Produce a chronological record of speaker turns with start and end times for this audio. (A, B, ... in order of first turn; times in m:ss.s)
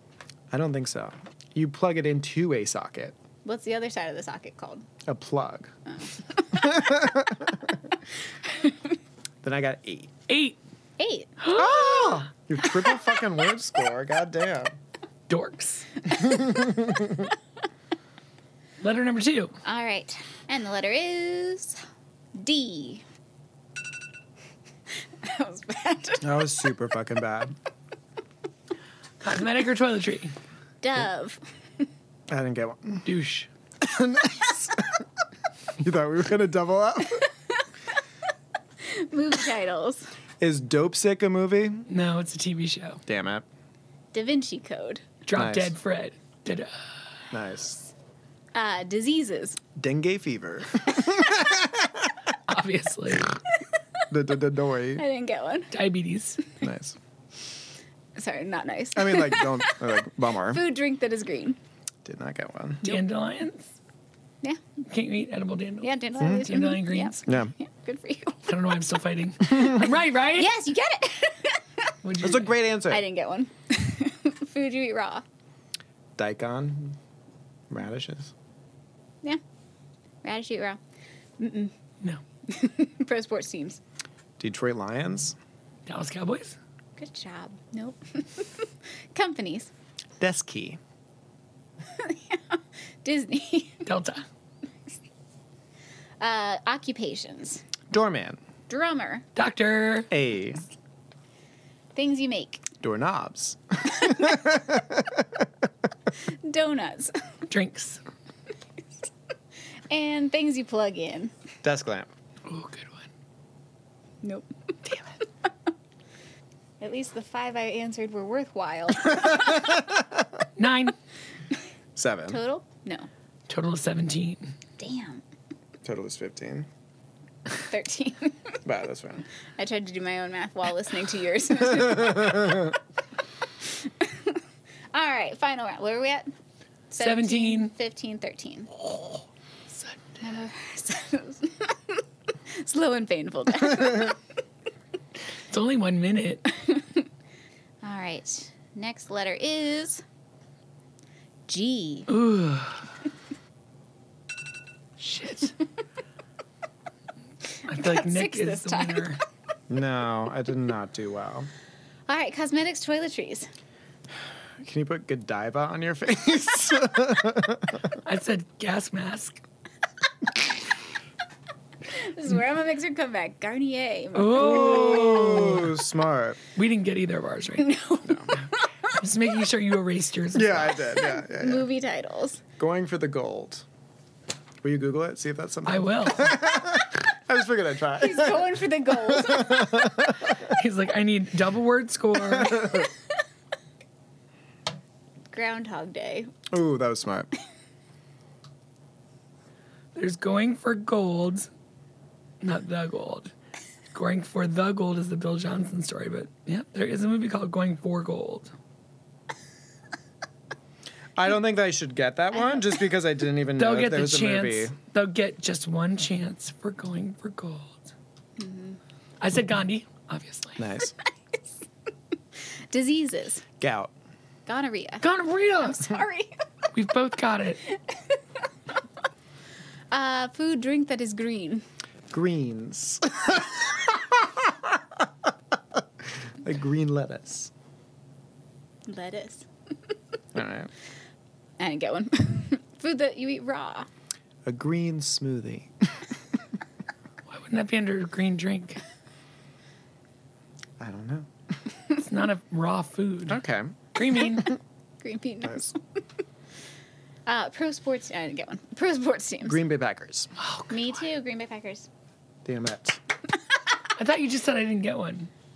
0:00.5-0:03.1 A
0:03.4-0:04.8 B
0:05.0-0:05.7 A
0:05.9-0:06.8 B
0:06.5-0:07.6 A
0:08.4-0:08.8 B
0:09.4-0:10.1 A
0:10.3-0:10.6 C
0:11.0-0:11.3 B
0:11.4-0:12.2 C
0:11.5-0:14.7 A
0:15.3-0:16.0 C
0:16.1-0:17.3 A
0:18.8-0:19.5 C
0:19.6-0:21.8 B
0:22.3-0:23.0 B
0:25.2-0:26.3 B
0:26.2-0:27.5 A
0:29.2-0:30.3 C
0:30.8-0:31.8 B
0:32.3-0:33.1 A
0:33.0-0:33.5 C
0:33.8-0:35.0 A
0:35.8-0:37.3 A
0:38.8-0:40.1 B
0:40.4-0:41.9 A
0:41.9-0:43.0 C
0:43.1-0:43.4 A
0:44.1-0:45.2 B
0:45.2-0:46.7 C
0:45.3-0:45.7 A
0:47.3-0:47.9 A
0:48.5-0:49.6 B
0:49.8-0:52.2 A
0:52.5-0:53.3 C
0:54.1-0:55.0 A
0:55.0-0:55.8 B
0:55.7-0:56.4 C
0:56.6-0:57.0 A
0:58.2-0:59.9 B
0:58.9-1:00.6 A
1:00.4-1:01.6 B
1:02.0-1:02.9 A
1:02.8-1:03.7 C
1:04.9-1:07.3 C
1:05.8-1:08.5 B
1:06.2-1:06.4 A
1:07.2-1:07.5 A
1:08.5-1:10.5 C
1:10.3-1:11.9 B
1:12.0-1:12.6 C
1:12.2-1:13.0 A
1:12.8-1:15.2 B
1:16.2-1:17.0 A
1:17.7-1:18.3 A
1:20.2-1:20.8 B
1:21.4-1:21.7 B
1:22.4-1:23.8 B
1:24.4-1:25.4 A
1:25.8-1:26.6 C
1:27.0-1:29.7 B
1:30.2-1:30.8 A
1:31.9-1:33.9 B
1:33.8-1:34.2 C
1:36.2-1:37.6 B
1:37.9-1:38.4 A
1:38.7-1:39.2 B
1:39.3-1:40.1 C
1:40.1-1:40.6 A
1:41.9-1:42.6 B
1:42.8-1:45.2 A
1:46.4-1:47.2 B
1:47.5-1:48.0 C
1:49.9-1:51.3 B
1:51.6-1:52.1 A
1:52.4-1:53.1 C
1:54.2-1:54.5 B
1:56.8-1:59.9 B
1:59.1-2:00.0 A
2:00.6-2:00.9 C
2:02.0-2:02.4 A
2:02.3-2:03.1 B
2:03.5-2:04.5 C
2:04.8-2:05.2 B
2:05.8-2:06.7 A
2:07.6-2:08.5 B
2:08.6-2:09.2 A
2:09.6-2:12.8 B
2:12.1-2:12.6 A
2:13.6-2:16.3 B
2:16.9-2:18.7 B
2:17.0-2:17.7 C
2:18.8-2:20.0 C
2:20.2-2:24.2 B
2:25.5-2:26.5 C
2:26.6-2:27.0 B
2:27.8-2:30.0 B
2:31.5-2:32.1 B
2:32.1-2:32.8 C
2:35.0-2:35.6 C
2:37.7-2:39.2 C
2:37.7-2:39.2 B
2:39.7-2:41.5 A
2:42.1-2:43.5 B
2:44.6-2:47.8 A
2:48.0-2:49.4 C
2:51.8-2:55.1 B
2:54.1-2:55.8 C
2:54.4-2:56.4 A
2:56.5-2:57.8 C
2:57.6-2:58.4 B
2:58.4-3:00.9 C
3:00.3-3:01.7 A
3:01.0-3:02.4 B
3:02.6-3:03.6 A
3:04.6-3:10.3 A
3:05.6-3:06.4 C
3:08.0-3:10.0 B
3:10.4-3:12.8 C
3:12.4-3:12.8 A
3:15.3-3:16.3 B
3:16.5-3:17.3 A
3:19.9-3:21.5 C
3:22.4-3:23.3 C
3:23.9-3:28.5 C
3:31.2-3:34.7 A
3:33.6-3:37.9 C
3:38.4-3:38.8 B
3:39.2-3:40.6 C
3:40.6-3:40.9 A
3:42.7-3:43.4 B
3:43.6-3:43.9 A
3:44.4-3:46.3 B
3:45.0-3:45.9 C
3:46.7-3:47.6 C
3:47.7-3:48.2 B
3:49.9-3:51.6 B
3:52.1-3:55.0 A
3:56.4-3:57.5 A
3:58.8-3:59.5 B
4:00.3-4:00.7 A
4:01.6-4:03.9 B
4:04.4-4:05.7 A
4:07.3-4:08.8 C
4:10.8-4:11.3 A
4:11.9-4:13.4 C
4:13.3-4:13.7 A
4:13.9-4:14.5 C
4:15.0-4:15.8 B
4:15.4-4:15.7 A
4:17.2-4:19.6 B
4:19.4-4:20.3 A
4:20.4-4:20.9 C
4:20.7-4:21.9 B
4:22.4-4:23.0 A
4:23.9-4:25.3 C